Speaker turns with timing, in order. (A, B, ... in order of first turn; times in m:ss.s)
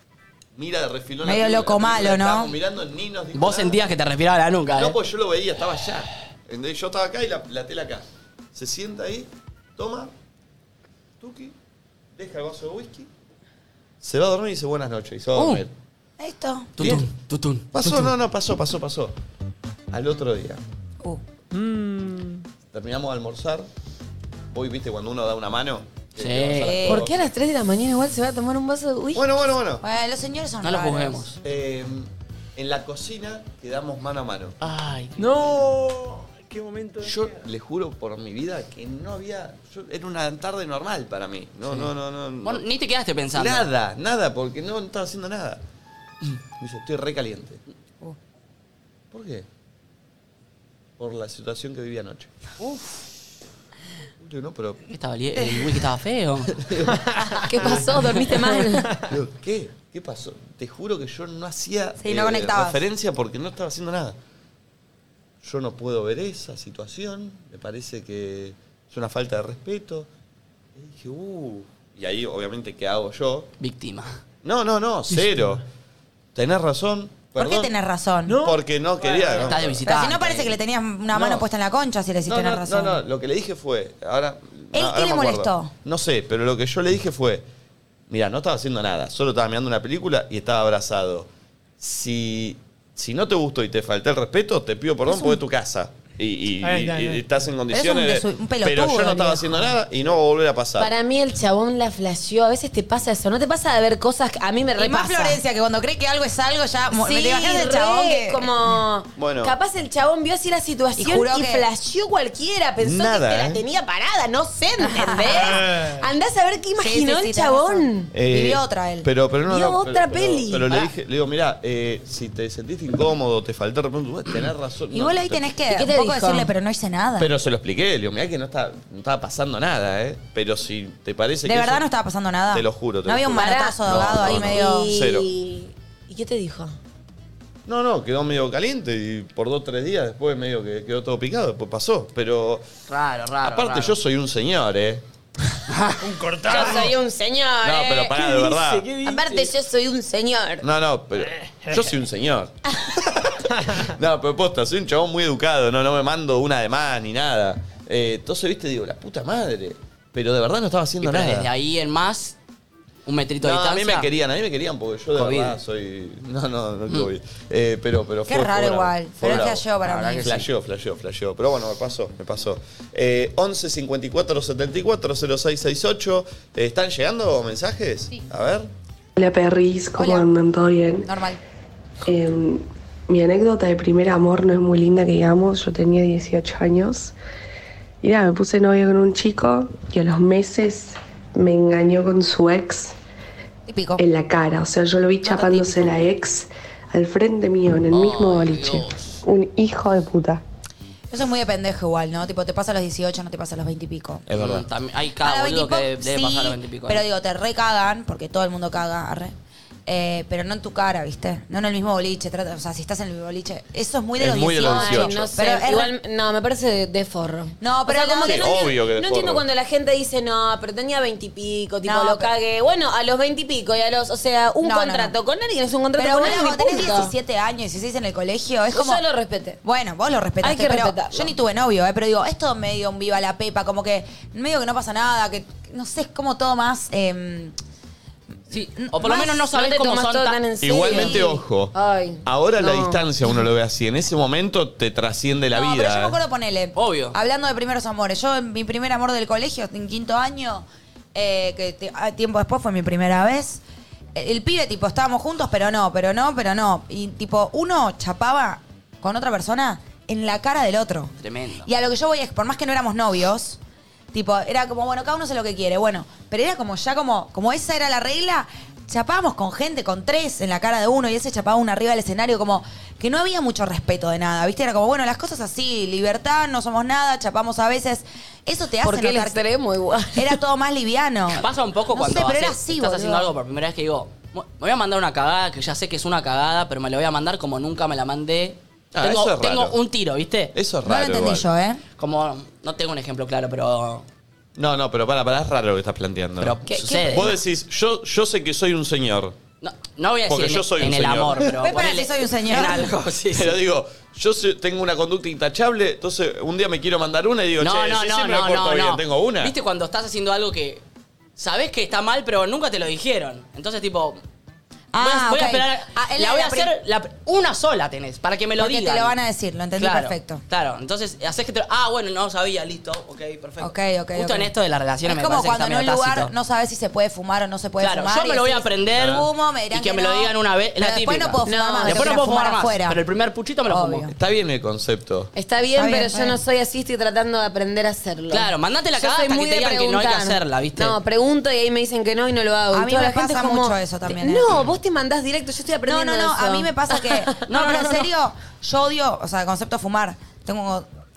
0:00.5-0:03.8 A
0:01.2-0:02.5 B
0:03.3-0:05.0 C
0:04.7-0:10.1 A
0:11.2-0:11.6 A
0:12.1-0:13.1 A
0:14.0-0:15.7 A
0:15.4-0:15.6 C
0:16.2-0:16.9 B
0:16.8-0:18.1 C
0:16.8-0:17.1 A
0:17.7-0:19.2 A
0:19.9-0:20.6 A
0:21.5-0:22.4 D
0:22.7-0:23.7 A
0:24.5-0:27.2 A
0:26.2-0:26.8 C
0:26.6-0:27.1 B
0:26.9-0:29.3 E
0:29.1-0:29.8 A
0:29.8-0:31.2 B
0:30.6-0:31.4 C
0:31.4-0:34.6 A
0:34.6-0:35.5 C
0:35.2-0:37.3 D
0:37.0-0:42.6 A
0:42.4-0:43.7 C
0:43.3-0:45.6 A
0:46.2-0:47.6 A
0:49.1-0:49.5 A
0:51.0-0:52.3 A
0:54.2-0:54.8 A
0:54.9-0:56.6 C
0:55.4-0:55.6 B
0:56.6-0:57.0 A
0:57.4-0:58.9 E
0:59.0-1:04.2 A
1:02.0-1:02.8 B
1:05.4-1:10.1 A
1:10.8-1:13.5 A
1:13.6-1:14.2 C
1:14.4-1:15.6 A
1:16.4-1:17.7 A
1:17.4-1:18.4 B
1:18.3-1:18.6 D
1:18.3-1:19.8 A
1:19.1-1:19.6 D
1:19.4-1:20.6 C
1:19.8-1:23.0 B
1:21.1-1:21.5 A
1:22.2-1:27.4 A
1:24.7-1:25.7 B
1:28.1-1:40.9 A
1:36.6-1:37.2 D
1:37.7-1:39.8 B
1:40.8-1:45.4 E
1:44.8-1:48.5 B
1:46.9-1:58.1 E
1:49.2-1:49.5 A
1:51.0-1:51.7 B
1:52.8-1:53.6 A
1:54.8-1:55.8 B
1:55.5-1:56.0 D
1:56.8-1:59.1 B
1:58.1-2:05.5 A
1:59.5-2:00.9 E
2:04.9-2:07.3 B
2:05.7-2:06.5 E
2:07.2-2:11.8 A
2:11.4-2:14.9 B
2:12.5-2:15.3 A
2:13.3-2:16.7 E
2:17.7-2:22.6 A
2:22.9-2:24.0 C
2:23.4-2:25.0 A
2:25.7-2:26.0 C
2:26.0-2:26.9 D
2:26.4-2:30.6 E
2:27.6-2:28.9 A
2:30.6-2:41.5 A
2:41.0-2:42.4 C
2:43.1-2:44.1 C
2:43.4-2:49.6 A
2:45.2-2:45.6 C
2:48.3-2:50.4 B
2:49.8-2:50.5 C
2:50.2-2:58.7 A
2:59.2-3:01.1 F
3:00.0-3:00.3 B
3:01.0-3:01.4 B
3:02.0-3:07.2 F
3:08.0-3:13.0 F
3:13.7-3:14.0 B
3:14.0-3:20.4 F
3:15.3-3:15.8 B
3:17.9-3:19.2 C
3:21.1-3:24.2 B
3:24.3-3:24.7 A
3:24.3-3:27.0 C
3:25.2-3:29.3 B
3:29.9-3:35.9 B
3:34.2-3:35.3 A
3:34.6-3:47.1 E
3:37.6-3:38.7 B
3:38.2-3:39.4 A
3:41.8-3:42.3 B
3:44.6-3:45.1 B
3:46.0-3:49.0 B
3:48.7-3:49.6 E
3:49.6-3:57.5 B
3:50.4-3:51.3 E
3:58.5-3:59.4 B
3:58.5-4:00.4 C
3:59.5-4:03.0 E
4:00.6-4:06.2 A
4:00.9-4:01.2 B
4:05.5-4:13.6 B
4:06.8-4:07.2 C
4:14.2-4:21.1 B
4:21.2-4:21.7 C
4:21.6-4:23.6 B
4:24.1-4:39.4 B
4:38.8-4:40.4 E
4:40.2-4:43.3 B
4:41.3-4:50.6 C
4:48.9-4:49.8 A
4:50.5-4:51.5 A
4:50.8-4:51.8 B
4:52.0-4:54.0 C
4:54.6-4:59.4 A
4:56.4-4:57.3 C
4:56.7-4:57.0 E
4:59.6-5:03.6 C
5:00.3-5:01.5 A
5:01.5-5:02.9 B
5:03.3-5:09.5 A
5:07.6-5:10.8 C
5:11.4-5:14.2 C
5:14.9-5:16.7 B
5:15.0-5:19.2 C
5:18.6-5:20.4 B
5:19.8-5:26.3 C
5:23.6-5:24.5 B
5:25.0-5:33.0 B
5:27.8-5:34.1 C
5:29.0-5:29.2 A
5:31.4-5:32.2 E
5:33.7-5:34.1 B
5:34.1-5:35.3 A
5:35.4-5:47.3 E
5:35.8-5:36.4 B
5:38.3-5:41.0 C
5:42.7-5:44.5 B
5:45.9-5:50.9 B
5:47.5-5:48.1 C